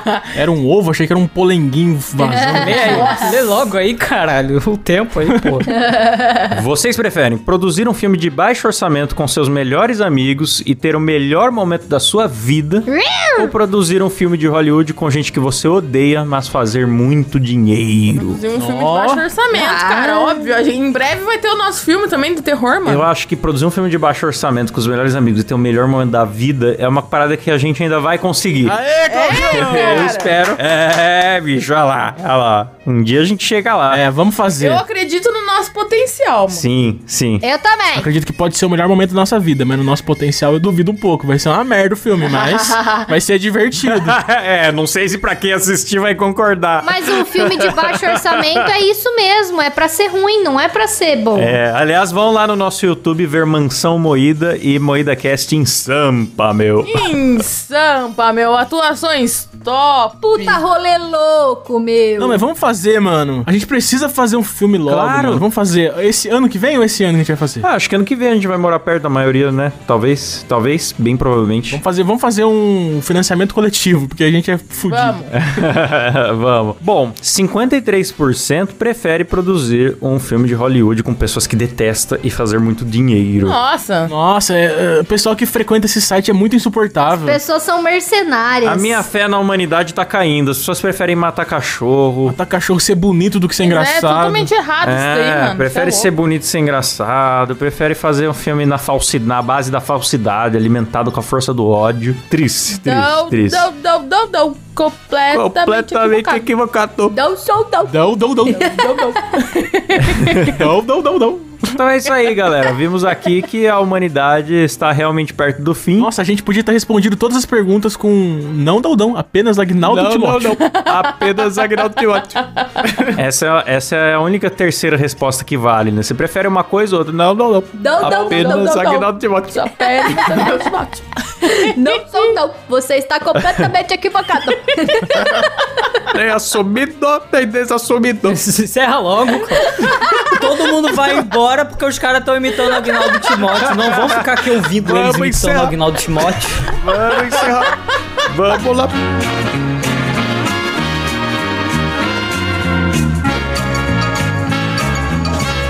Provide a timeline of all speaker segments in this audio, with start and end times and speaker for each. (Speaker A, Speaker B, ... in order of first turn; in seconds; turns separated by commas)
Speaker A: 0.3-3.2, Speaker B: 2.2-3.5, Speaker C: 2.6-5.7, Speaker B: 5.7-6.5, Speaker D: 6.5-18.4, Speaker B: 12.9-13.5, Speaker E: 18.2-23.1, Speaker A: 18.6-19.2, Speaker B: 19.5-20.5, Speaker D: 22.9-34.0, Speaker A: 28.6-30.1, Speaker E: 29.1-30.4, Speaker A: 33.9-34.8, Speaker E: 34.6-36.7, Speaker D: 36.5-37.4, Speaker B: 37.4-38.1, Speaker A: 38.0-44.2, Speaker D: 43.9-48.7, Speaker B: 46.8-51.6, Speaker D: 51.4-57.1, Speaker E: 56.9-60.6, Speaker B: 60.2-62.4, Speaker A: 62.2-67.7, Speaker D: 64.9-65.5, Speaker D: 67.6-71.8, Speaker A: 71.7-75.3, Speaker E: 74.9-75.3, Speaker D: 75.3-83.6, Speaker E: 83.4-84.1, Speaker A: 84.1-87.4, Speaker B: 87.1-89.1, Speaker D: 88.6-92.4, Speaker A: 92.3-94.5, Speaker E: 93.6-96.1, Speaker D: 94.8-103.7, Speaker E: 102.7-106.5, Speaker D: 105.3-107.2, Speaker B: 107.1-109.5, Speaker A: 107.9-108.7, Speaker E: 108.6-110.5, Speaker D: 110.2-110.6, Speaker A: 110.3-111.8, Speaker D: 111.7-116.1, Speaker A: 116.0-120.6, Speaker D: 119.8-122.5, Speaker E: 120.6-122.9, Speaker D: 123.1-130.4, Speaker B: 127.8-129.1, Speaker E: 128.0-129.0, Speaker E: 129.5-132.3, Speaker B: 129.8-130.7, Speaker B: 131.4-136.0, Speaker D: 133.4-133.7, Speaker D: 136.1-138.4, Speaker C: 138.3-146.7, Speaker B: 139.7-140.3, Speaker D: 143.6-145.8, Speaker D: 146.7-148.9